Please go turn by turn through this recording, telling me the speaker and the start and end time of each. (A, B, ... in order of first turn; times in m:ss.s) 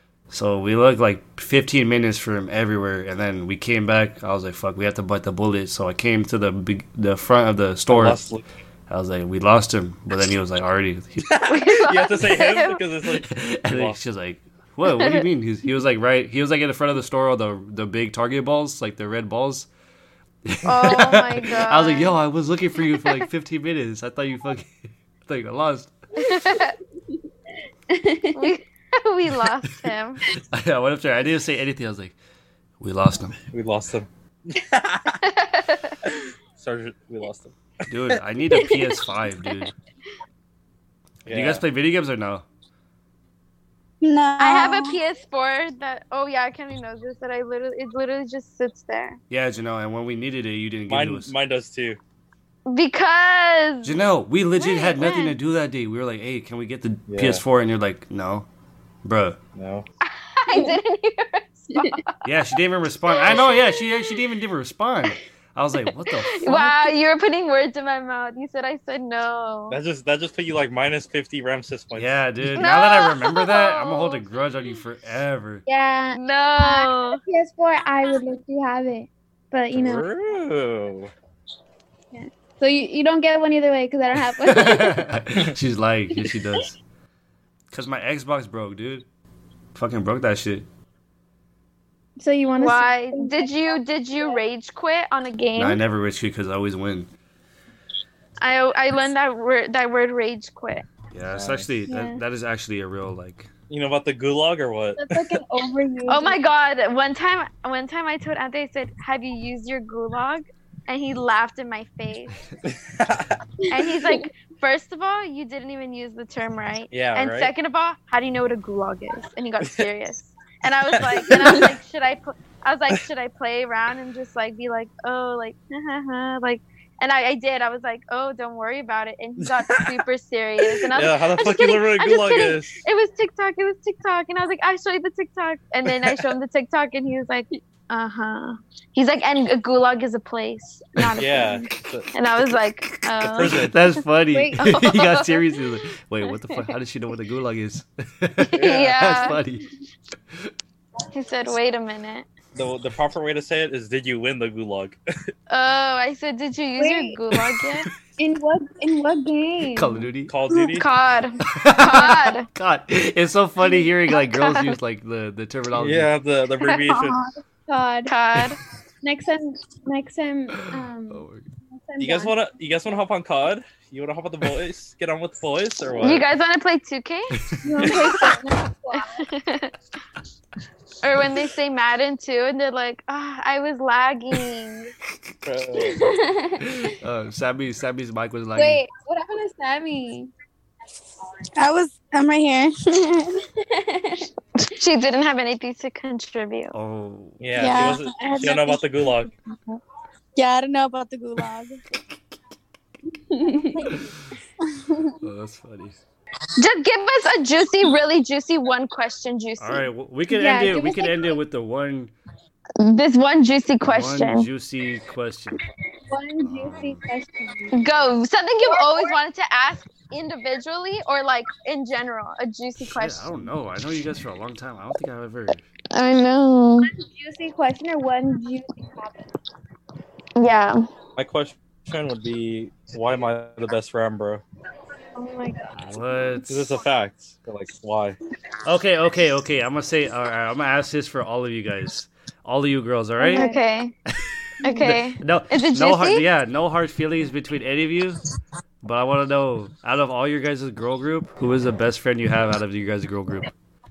0:00.3-0:08.2 A
0:07.9-0:08.4 B
0:08.9-0:11.3 A
0:11.3-0:14.0 B
0:11.5-0:12.8 C
0:13.3-0:19.7 A
0:14.9-0:15.2 C
0:20.5-0:25.9 A
0:20.6-0:22.2 C
0:26.2-0:26.8 C
0:26.2-0:26.6 D
0:27.9-0:28.5 D
0:28.4-0:30.2 C
0:30.3-0:32.2 A
0:32.8-0:33.4 A
0:33.5-0:35.2 B
0:35.2-0:36.0 C
0:36.1-0:37.6 B
0:37.9-0:39.7 A
0:41.3-0:41.6 B
0:41.3-0:42.4 A
0:44.0-0:45.0 E
0:44.4-0:49.2 C
0:49.3-0:51.3 A
0:50.9-0:52.0 B
0:52.7-0:54.0 C
0:53.8-0:58.5 A
0:54.6-0:55.4 C
0:57.1-0:57.4 B
0:59.0-0:59.4 A
0:59.6-0:59.9 B
1:00.0-1:02.2 C
1:02.2-1:06.5 A
1:03.1-1:03.9 C
1:06.1-1:09.8 C
1:06.5-1:06.9 D
1:09.7-1:12.2 B
1:12.0-1:15.6 A
1:12.6-1:14.2 C
1:15.7-1:20.1 D
1:16.1-1:17.2 C
1:19.7-1:21.1 B
1:22.1-1:25.0 D
1:24.4-1:26.8 A
1:27.7-1:29.1 A
1:29.8-1:30.7 A
1:32.2-1:34.4 D
1:32.6-1:35.8 C
1:35.6-1:37.1 A
1:38.4-1:40.8 C
1:41.1-1:43.5 A
1:41.3-1:41.7 B
1:41.9-1:42.2 D
1:43.7-1:45.2 B
1:45.0-1:46.4 D
1:46.1-1:52.4 C
1:52.6-1:53.4 B
1:53.7-2:23.7 C
1:53.9-1:54.2 D
1:56.9-1:57.5 B
2:01.0-2:01.6 B
2:09.4-2:09.9 B
2:10.9-2:12.8 B
2:21.2-2:22.1 B
2:22.4-2:29.7 A
2:23.3-2:23.8 B
2:24.3-2:24.7 D
2:24.6-2:25.5 C
2:28.4-2:29.4 C
2:28.6-2:29.0 B
2:31.1-2:32.3 C
2:32.6-2:35.0 B
2:35.5-2:37.9 C
2:36.8-2:37.2 D
2:37.3-2:37.9 A
2:38.2-2:40.1 D
2:39.7-2:40.3 A
2:40.3-2:40.9 B
2:40.5-2:42.5 C
2:41.4-2:46.1 A
2:44.2-2:44.7 C
2:45.8-2:47.2 B
2:46.7-2:47.1 C
2:47.7-2:48.1 D
2:48.1-2:48.6 C
2:49.0-2:52.4 D
2:50.7-2:51.5 A
2:52.0-2:56.3 B
2:56.0-2:58.3 C
2:57.4-2:58.3 A
2:57.6-2:59.3 D
2:59.0-2:59.7 C
3:01.0-3:04.9 C
3:05.4-3:06.0 B
3:05.8-3:06.9 D
3:06.6-3:08.8 A
3:08.6-3:10.3 D
3:11.6-3:13.4 E
3:13.6-3:14.3 D
3:14.6-3:16.8 C
3:16.7-3:17.4 A
3:17.4-3:19.3 B
3:17.6-3:18.8 C
3:20.4-3:21.8 E
3:23.1-3:24.0 D
3:24.6-3:25.2 E
3:25.2-3:26.0 A
3:26.6-3:29.9 C
3:29.6-3:32.1 A
3:30.3-3:31.4 D
3:32.8-3:34.5 C
3:33.8-3:35.6 A
3:36.1-3:37.8 D
3:36.4-3:37.0 A
3:37.7-3:43.3 C
3:38.6-3:39.1 D
3:42.8-3:45.6 A
3:45.9-3:46.9 C
3:46.9-3:49.3 D
3:50.4-3:50.8 C
3:51.2-3:54.4 B
3:55.2-3:55.8 C
3:55.7-3:56.8 A
3:56.5-3:58.2 B
3:58.6-4:03.5 A
4:03.2-4:03.6 D
4:03.3-4:04.0 C
4:04.1-4:08.2 A
4:04.6-4:05.0 D
4:04.6-4:06.3 C
4:08.8-4:13.5 A